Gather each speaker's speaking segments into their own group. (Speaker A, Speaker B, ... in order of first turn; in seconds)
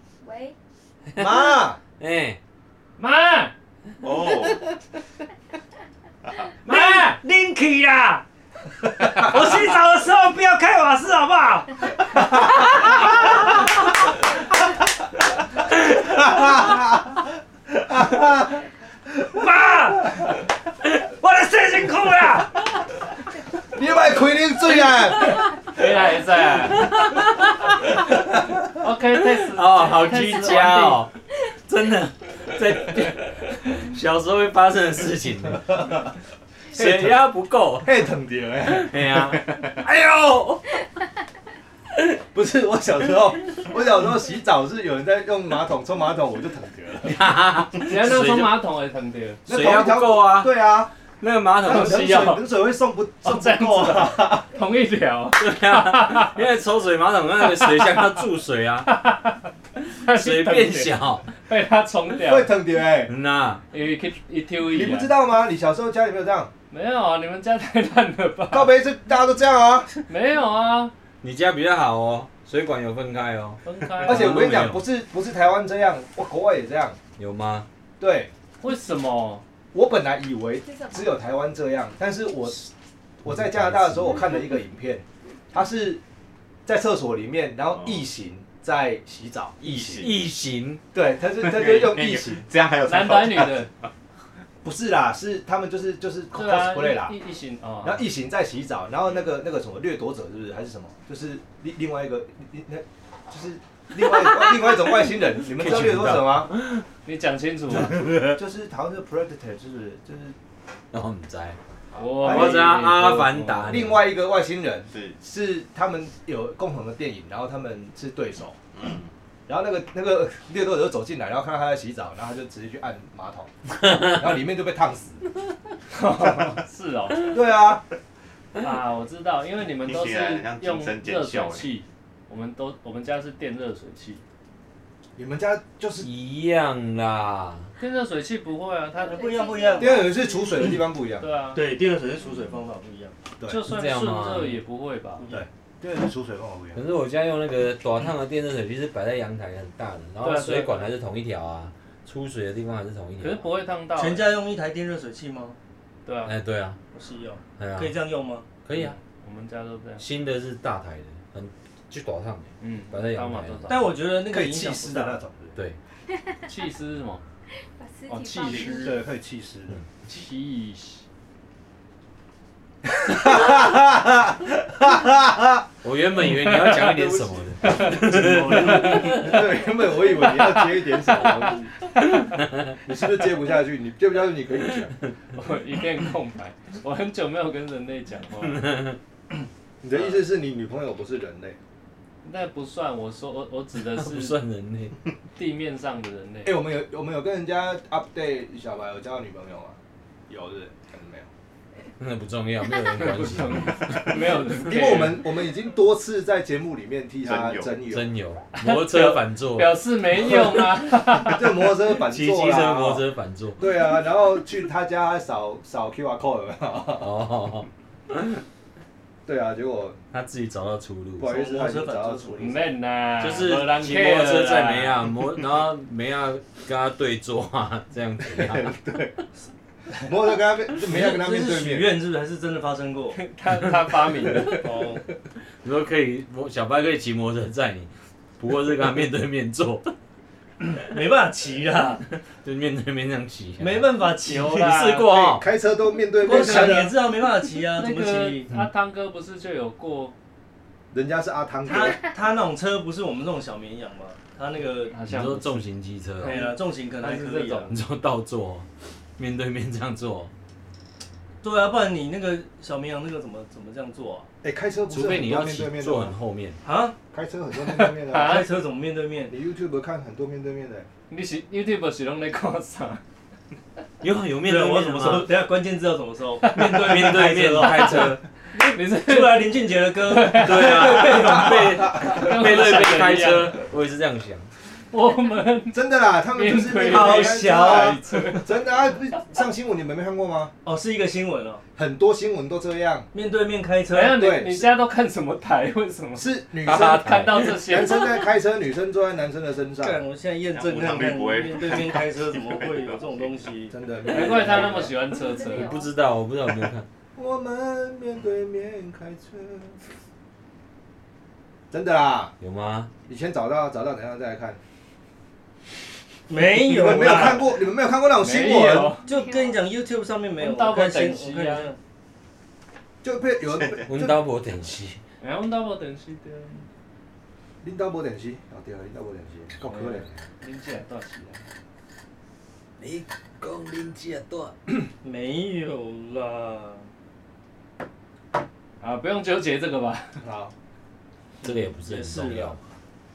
Speaker A: 0.2-0.5, 80.6-81.1, 139.0-140.5, 166.1-166.4, 167.6-169.0, 305.1-306.0, 319.0-319.6
Speaker B: 1.1-2.4, 26.8-28.3, 29.3-36.0, 36.7-38.0, 38.7-40.6, 47.0-48.6, 49.5-50.5, 51.2-52.4, 55.4-58.9, 60.1-61.3, 63.0-63.6, 71.2-74.8, 77.2-77.7, 83.3-84.3, 89.6-90.8, 104.1-106.8, 110.9-111.6, 112.2-114.0, 136.0-137.7, 143.7-144.6, 146.7-153.4, 156.2-156.8, 157.6-157.9, 158.6-159.0, 160.0-163.8, 175.8-179.1, 188.4-189.0, 193.9-195.0, 202.0-204.8, 207.9-209.8, 212.1-213.6, 217.0-218.4, 220.1-221.3, 223.2-228.8, 235.6-239.9, 242.4-243.9, 244.5-245.4, 255.0-256.4, 257.7-260.3, 264.9-266.6, 274.0-275.3, 276.5-278.2, 280.3-284.5, 296.6-297.6, 305.4-306.9, 312.4-312.9, 323.8-325.0, 332.8-334.5, 341.4-342.6
Speaker C: 1.1-1.8, 15.8-18.6, 23.7-25.4, 36.7-37.3, 37.8-39.5, 42.3-47.3, 49.5-50.9, 51.6-54.5, 62.2-63.1, 64.7-66.5, 68.5-69.9, 74.0-77.0, 78.0-78.3, 79.7-82.7, 83.2-86.0, 86.7-90.1, 90.9-92.5, 94.6-97.2, 97.8-106.5, 107.8-110.3, 111.9-118.7, 119.5-125.2, 127.3-127.8, 135.2-136.1, 139.8-141.2, 143.4-143.7, 145.3-146.8, 164.2-165.6, 168.6-169.8, 172.9-175.7, 176.4-181.7, 182.8-184.9, 189.8-191.6, 196.4-199.8, 200.3-201.3, 204.6-208.1, 211.1-213.1, 213.6-217.2, 219.2-220.0, 221.2-222.7, 228.2-229.2, 230.0-231.9, 245.1-246.9, 250.9-252.0, 264.4-266.1, 267.1-268.4, 269.3-270.9, 280.9-282.5, 285.7-290.5, 291.8-293.1, 294.1-294.7, 296.2-300.0, 303.7-304.9, 307.1-309.8, 311.7-312.3, 313.1-314.6, 316.5-318.9, 323.0-324.2, 327.6-330.2, 340.2-340.5
Speaker D: 3.0-3.5, 6.6-7.2, 25.6-26.9, 28.8-31.0, 47.7-49.4, 51.6-52.4, 53.2-56.4, 57.5-58.0, 58.9-59.4, 60.0-62.5, 63.7-65.1, 66.7-68.7, 70.1-70.9, 73.6-74.5, 78.6-79.4, 92.8-93.7, 96.3-98.0, 107.0-108.0, 111.9-113.8, 125.9-127.4, 128.6-134.2, 137.8-139.3, 141.2-141.6, 143.5-145.2, 150.2-150.9, 153.2-154.3, 156.1-156.3, 158.7-160.0, 162.6-164.0, 166.5-167.2, 168.1-169.0, 170.1-171.0, 177.6-179.4, 180.2-181.2, 185.3-188.7, 189.9-190.2, 192.2-194.4, 195.3-196.6, 202.9-205.2, 208.5-211.7, 222.4-225.0, 233.1-234.8, 244.2-245.3, 247.7-250.1, 254.9-255.7, 256.2-257.8, 268.0-268.4, 271.1-273.0, 276.4-283.6, 284.9-288.5, 293.9-298.1, 304.1-305.7, 318.2-319.1, 320.4-321.7, 325.2-326.6, 329.6-331.4, 338.8-340.2
Speaker E: 4.0-4.7, 87.7-88.0, 89.6-90.2, 91.4-93.8, 114.9-115.2, 118.8-119.1, 129.8-131.7, 207.2-207.8, 300.5-303.4
Speaker F: 6.6-8.2, 8.9-11.8, 19.3-20.3, 20.9-22.6, 139.1-140.1, 141.5-143.1, 145.2-145.4, 153.9-155.6, 156.9-158.4, 163.7-165.2, 178.0-178.9, 221.2-222.7, 230.8-233.2, 234.5-235.0, 240.6-242.1, 243.6-244.8, 246.2-248.5, 251.7-254.9, 256.2-257.7, 261.4-264.3, 266.6-266.9, 268.1-269.3, 274.4-281.9, 286.9-288.5, 290.6-291.6, 293.1-294.2, 299.8-303.7, 316.3-317.6, 319.0-321.8, 335.0-336.9, 341.4-342.6